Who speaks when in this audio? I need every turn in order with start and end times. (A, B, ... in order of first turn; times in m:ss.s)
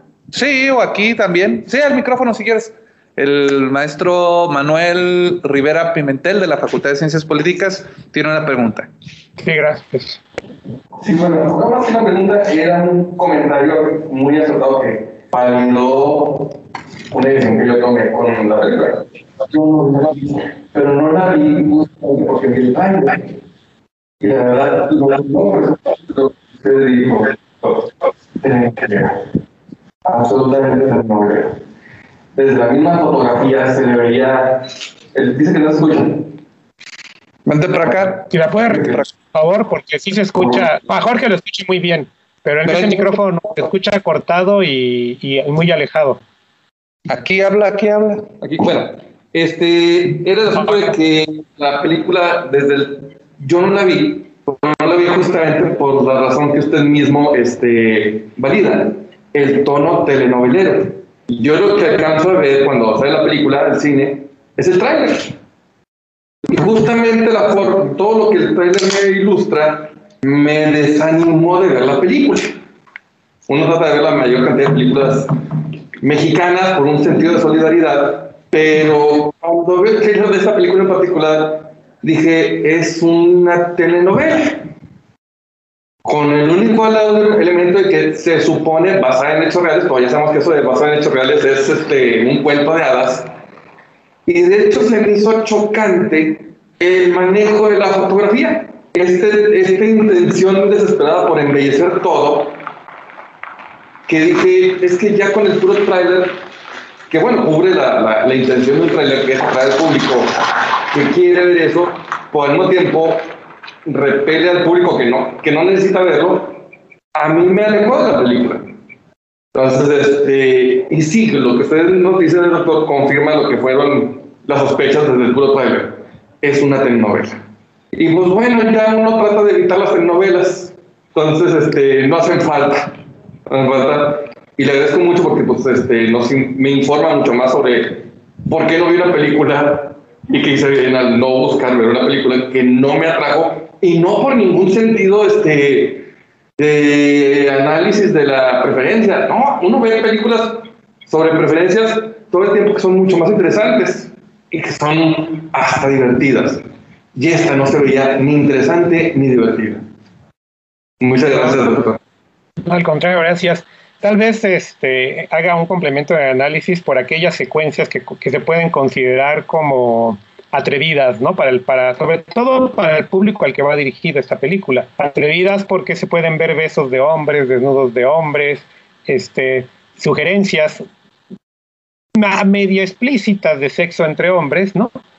0:00.3-0:08.9 A
0:09.4-0:10.2 B
0:11.0-0:16.5 C
0:17.1-0:23.4 C
0:24.2-0:27.9 C
0:28.4-0:29.2 C
0:30.0-0:31.6 C
0:32.3-0:36.3 C
0:37.4-0:38.3 A
0:38.3-0:46.2 B
0:42.6-0:43.1 A
0:47.1-0:48.3 A
0:48.4-1:05.4 C
1:06.4-1:12.6 C
1:13.4-1:15.3 C
1:16.0-1:24.7 C
1:26.0-1:33.3 C
1:34.2-1:42.6 C
1:44.1-1:46.4 C
1:47.1-1:53.3 C
1:53.8-1:58.8 C
1:59.5-2:07.4 C
2:07.9-2:36.6 C
2:37.1-2:39.8 C
2:41.0-2:42.0 C
2:42.6-3:00.8 B
3:02.1-3:04.9 B